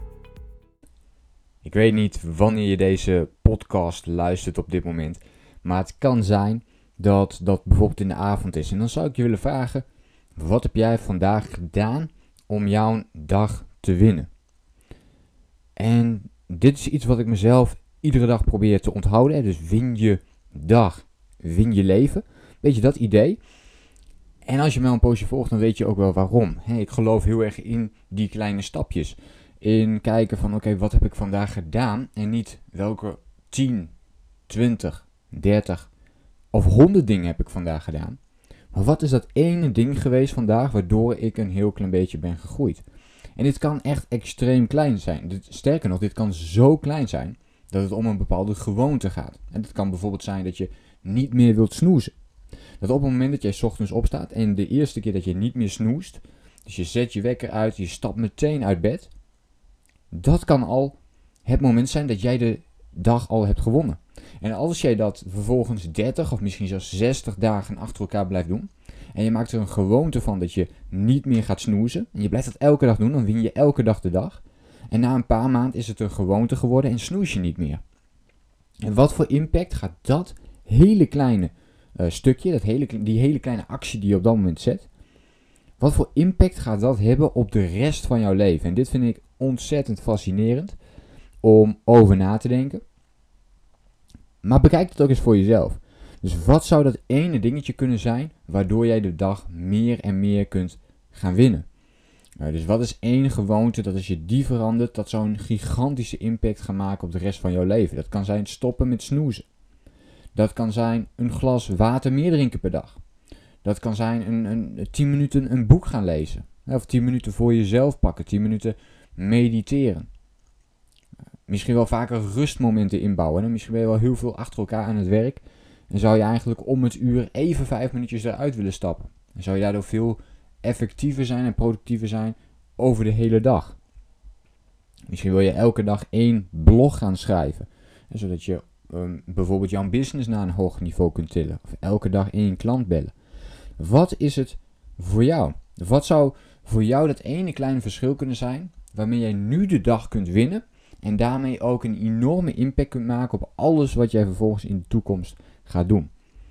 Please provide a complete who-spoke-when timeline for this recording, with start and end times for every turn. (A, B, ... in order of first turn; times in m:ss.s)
0:01.6-0:09.8 A
0:10.4-0:14.3 A
0:15.8-0:23.4 A
0:24.4-0:33.9 A
0:34.5-0:35.9 A
0:36.5-0:38.2 A
0:38.7-0:42.8 A
0:43.4-0:52.1 A
0:52.8-0:59.1 A
1:00.1-1:17.8 A
1:18.8-1:24.9 A
1:25.8-1:30.8 A
1:31.4-1:32.8 A
1:34.4-1:41.6 A
1:42.4-1:49.4 A
1:50.3-1:53.0 A
1:53.6-2:00.1 A
2:01.5-2:13.8 A
2:15.1-2:23.1 A
2:23.8-2:36.1 A